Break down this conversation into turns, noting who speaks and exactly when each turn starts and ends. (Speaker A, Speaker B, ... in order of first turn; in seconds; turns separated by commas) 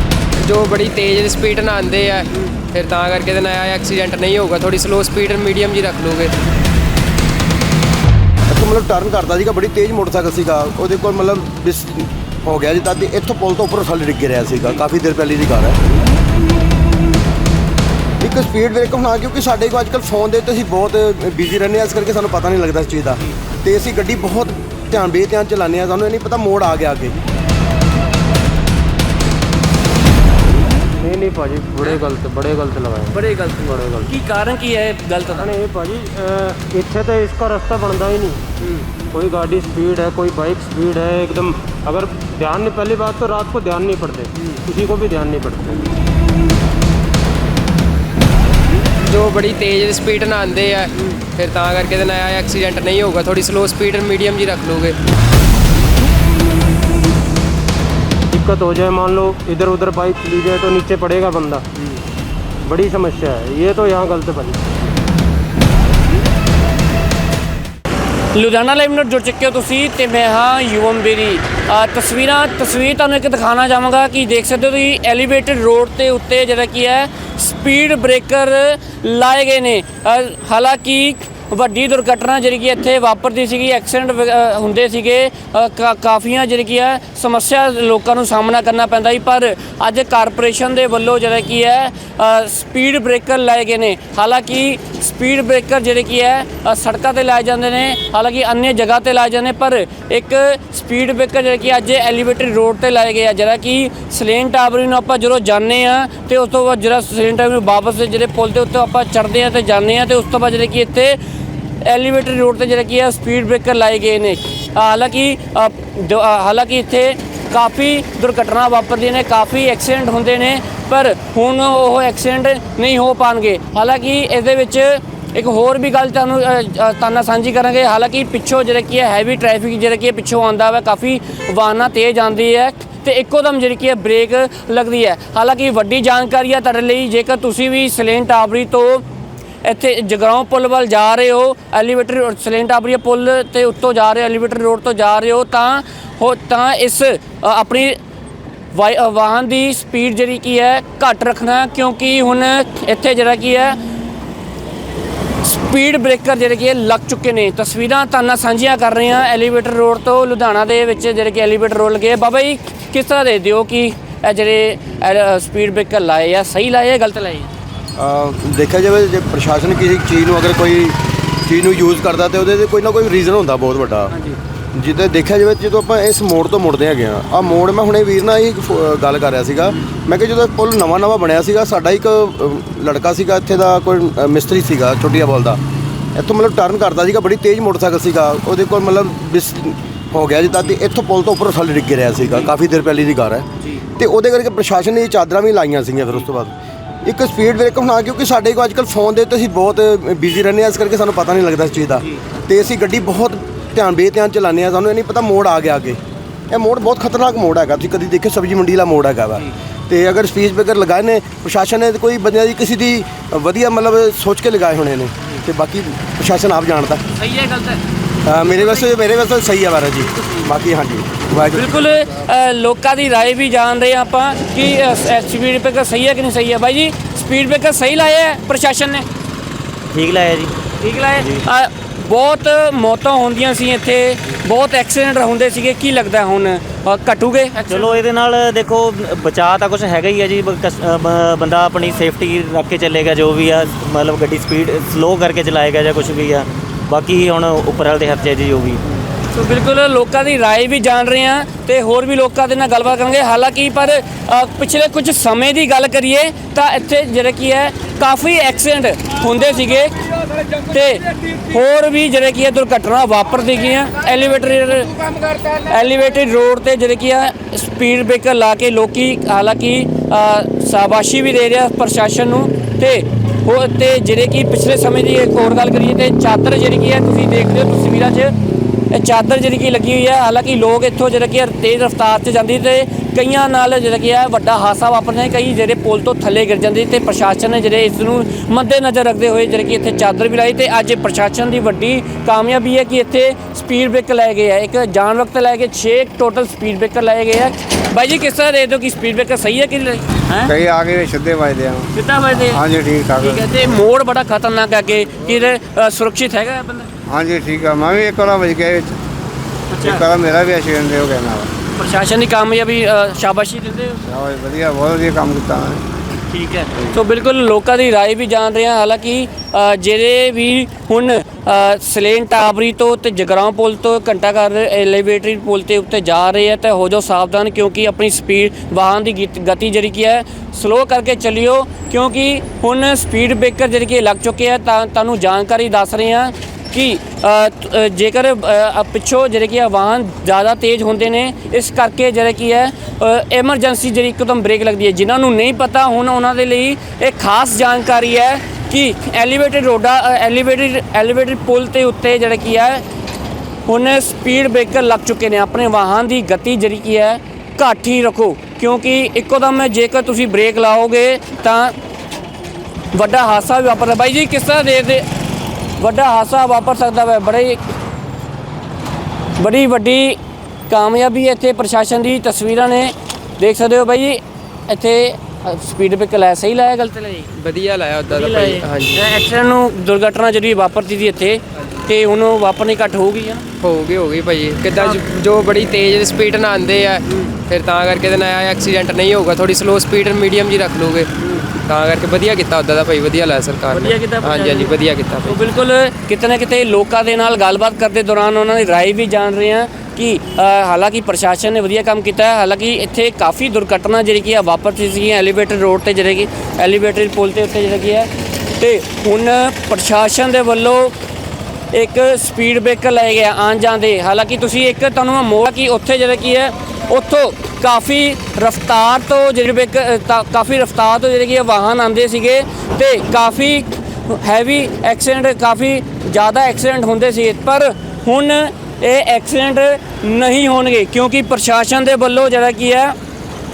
Speaker A: 0.4-6.3, Speaker B: 8.5-15.8, Speaker B: 18.2-27.2, Speaker C: 31.0-34.1, Speaker D: 33.1-35.5, Speaker C: 35.3-38.4, Speaker C: 39.1-45.9, Speaker A: 49.0-55.0, Speaker C: 58.3-61.6, Speaker C: 62.6-64.6, Speaker D: 68.3-111.2, Speaker D: 111.8-139.0, Speaker D: 139.6-148.0, Speaker D: 148.7-153.8, Speaker D: 155.4-167.5, Speaker B: 168.0-174.1, Speaker D: 174.1-174.4, Speaker B: 174.8-185.6, Speaker B: 186.2-196.5, Speaker B: 197.1-206.0, Speaker B: 206.5-217.0, Speaker D: 217.2-217.8, Speaker B: 218.2-221.8, Speaker D: 218.5-218.8, Speaker D: 221.6-229.1, Speaker E: 229.9-230.5, Speaker D: 230.8-238.1, Speaker E: 237.7-248.8, Speaker D: 249.3-278.3, Speaker D: 278.9-300.5, Speaker F: 300.4-301.9, Speaker D: 301.9-302.6, Speaker F: 302.5-303.6, Speaker D: 303.2-306.9, Speaker F: 307.1-309.0, Speaker D: 309.7-310.1, Speaker F: 309.8-311.5, Speaker D: 311.8-314.0, Speaker F: 314.1-315.8, Speaker D: 316.3-352.8, Speaker D: 353.7-361.7, Speaker D: 362.9-365.1, Speaker D: 365.8-367.6, Speaker D: 369.4-370.2, Speaker D: 370.7-377.3, Speaker A: 377.4-379.0, Speaker D: 378.1-383.4, Speaker A: 383.6-391.1, Speaker D: 391.2-391.5, Speaker A: 391.6-395.4, Speaker D: 393.7-410.9, Speaker D: 411.7-432.9